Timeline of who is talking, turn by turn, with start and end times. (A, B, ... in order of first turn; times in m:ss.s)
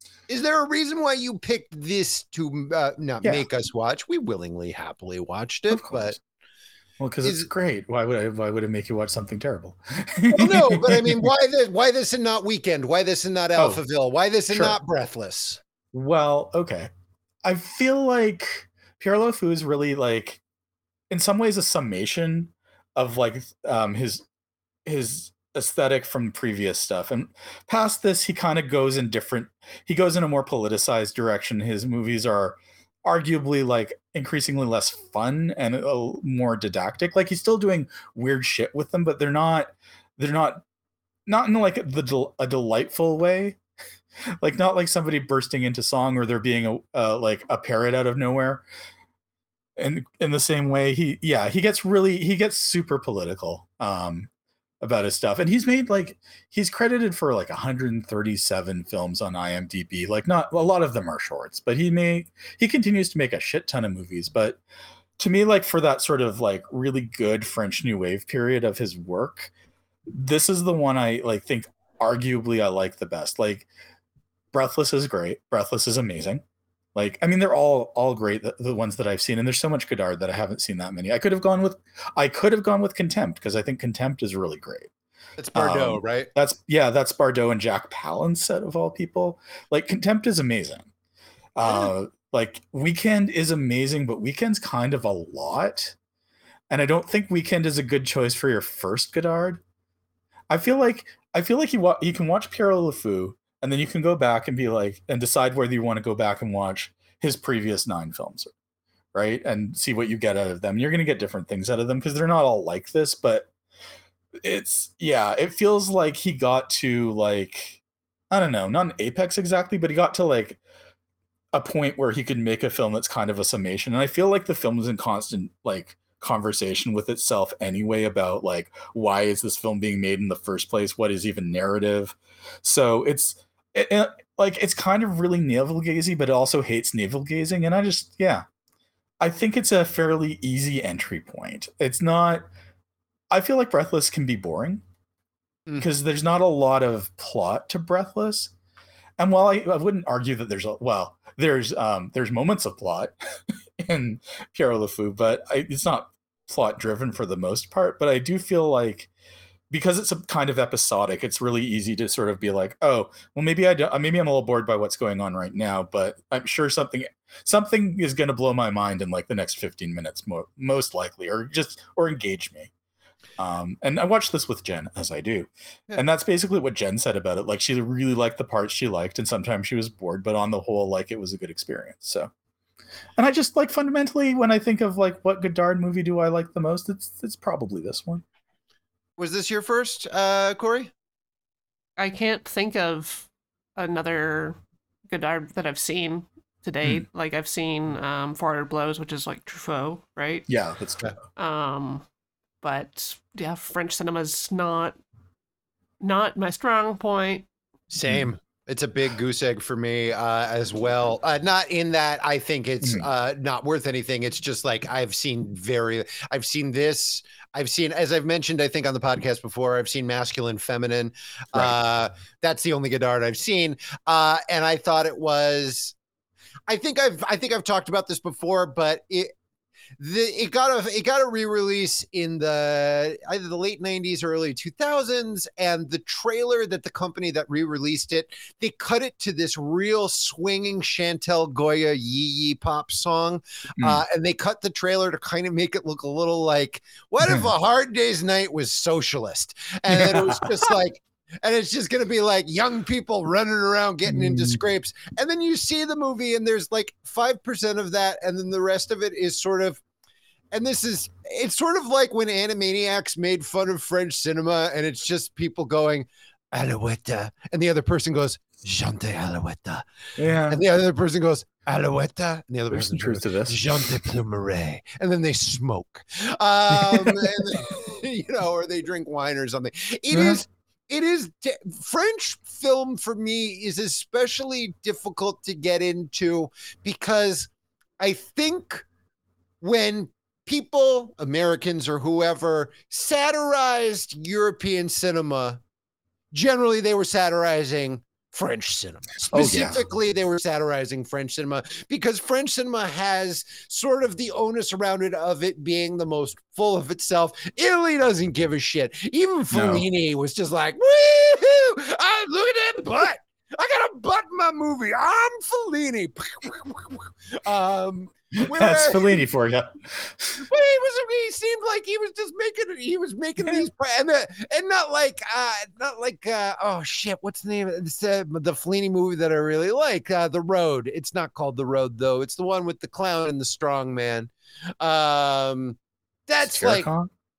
0:00.3-0:06.2 A
0:05.7-0:06.2 B
0:07.0-0:11.3 B
0:07.2-0:07.5 A
0:10.3-0:15.6 A
0:13.6-0:13.8 B
0:15.9-0:16.9 B
0:17.4-0:20.4 B
0:21.1-0:24.2 B
0:24.9-0:40.6 B
0:41.3-0:43.6 B
0:44.4-0:48.6 B
0:49.8-0:54.3 B
0:54.8-1:04.6 B
1:05.2-1:09.5 B
1:10.1-1:13.7 B
1:14.5-1:16.4 B
1:17.0-1:24.9 B
1:25.4-1:26.3 A
1:25.6-1:30.9 B
1:31.6-1:36.0 B
1:31.6-1:31.9 A
1:36.7-1:39.6 B
1:40.5-1:48.5 B
1:49.1-1:53.5 B
1:54.4-1:57.8 B
1:58.3-2:00.6 B
2:01.5-2:18.4 B
2:19.2-2:22.5 B
2:23.3-2:24.8 B
2:25.8-2:28.5 B
2:29.2-2:33.1 B
2:33.8-2:39.1 B
2:39.7-2:52.7 B
2:53.4-3:02.3 B
3:03.2-3:08.2 B
3:09.2-3:10.9 A
3:12.0-3:14.6 C
3:15.1-3:20.5 C
3:20.5-3:21.2 B
3:21.4-3:22.0 C
3:22.6-3:25.0 C
3:26.0-3:27.5 C
3:27.9-3:46.0 A
3:46.7-3:49.3 A
3:50.0-4:19.8 A
4:09.9-4:10.5 B
4:14.1-4:14.6 B
4:20.5-4:29.8 A
4:30.2-4:30.6 B
4:30.5-4:48.9 A
4:32.7-4:34.0 B
4:36.7-4:37.4 B
4:40.1-4:40.4 B
4:49.6-4:55.6 A
4:56.3-5:19.2 A
4:59.3-4:59.8 B
5:09.5-5:09.9 B
5:18.4-5:20.4 B
5:20.4-5:36.9 A
5:36.4-5:37.1 B